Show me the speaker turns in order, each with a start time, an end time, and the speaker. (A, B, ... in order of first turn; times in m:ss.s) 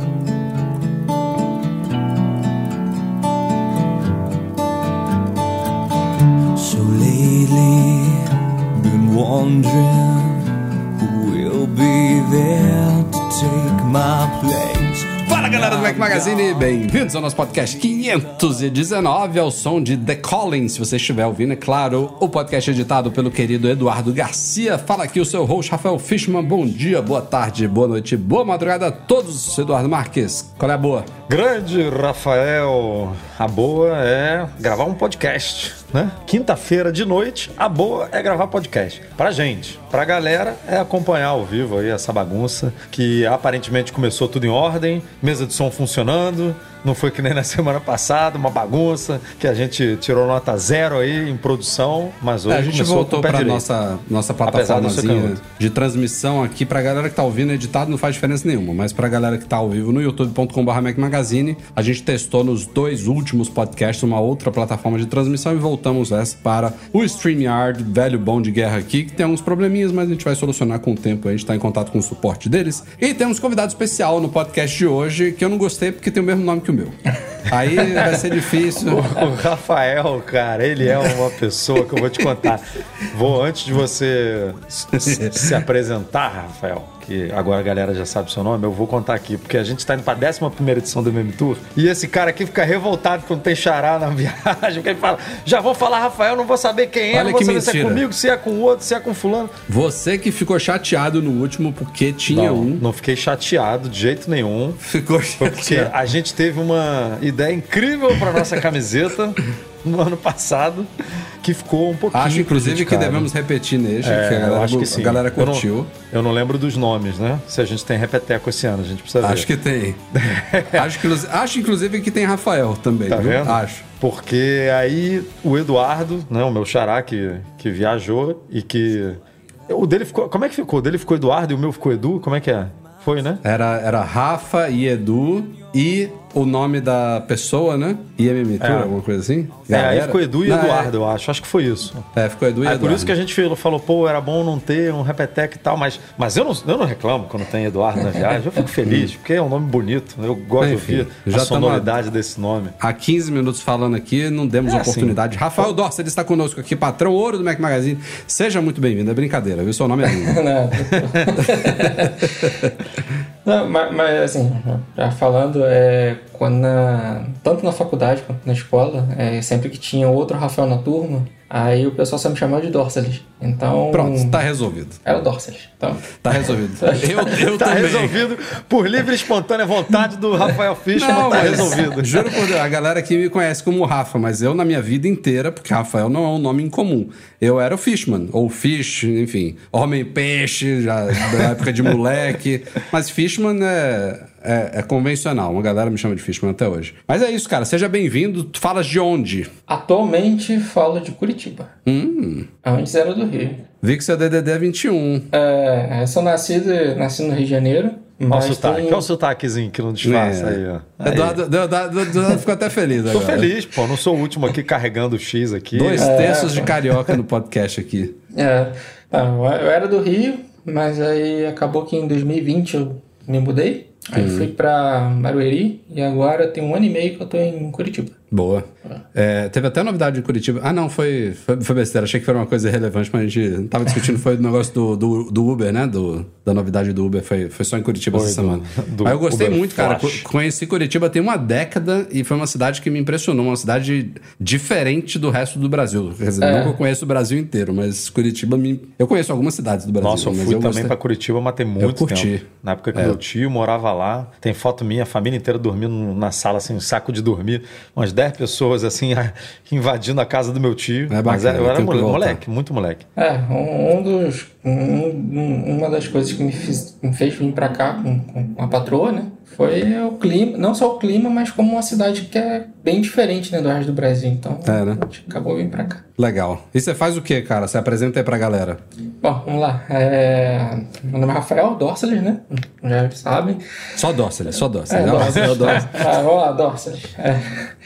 0:06.5-0:16.7 A
0:15.3-0:31.1 B
0:31.3-0:53.6 C
0:52.5-1:19.1 B
0:54.5-0:55.4 C
1:17.9-1:18.1 C
1:18.8-1:39.6 C
1:24.9-1:25.6 B
1:37.1-1:38.1 B
1:39.7-1:42.8 B
1:42.3-1:44.8 C
1:44.8-1:45.9 B
1:45.4-1:50.9 C
1:51.4-1:53.3 C
1:52.1-1:55.9 B
1:54.0-1:59.5 C
1:59.2-2:00.0 B
2:00.1-2:01.1 C
2:00.7-2:03.8 B
2:03.1-2:13.4 C
2:13.4-2:20.9 B
2:18.6-2:18.9 C
2:19.7-2:22.1 C
2:22.2-2:23.1 B
2:22.6-2:32.8 C
2:28.8-2:29.1 B
2:30.6-2:31.9 B
2:32.8-2:40.8 B
2:34.7-2:35.2 C
2:40.1-2:42.5 D
2:41.4-2:42.8 B
2:43.4-2:54.4 D
2:53.9-2:55.0 B
2:55.0-2:57.4 D
2:56.2-2:58.2 B
2:57.3-3:02.2 C
3:00.9-3:19.5 B
3:01.2-3:01.9 D
3:19.7-3:21.7 D
3:21.9-3:22.5 B
3:22.6-3:23.6 D
3:23.8-3:25.3 B
3:25.3-3:29.1 D
3:28.3-3:31.4 C
3:30.0-3:33.5 B
3:33.1-3:36.4 C
3:35.7-3:38.2 B
3:36.0-3:36.8 D
3:38.3-3:48.2 D
3:44.2-3:44.5 B
3:48.3-4:10.9 B
3:58.1-4:00.3 C
4:06.4-4:06.8 D
4:10.0-4:23.0 C
4:11.8-4:13.2 B
4:21.1-4:22.4 B
4:23.2-4:36.0 D
4:34.6-4:35.0 B
4:36.2-4:38.8 B
4:39.2-4:43.6 D
4:44.0-4:46.1 B
4:44.9-4:47.7 D
4:45.2-4:45.8 C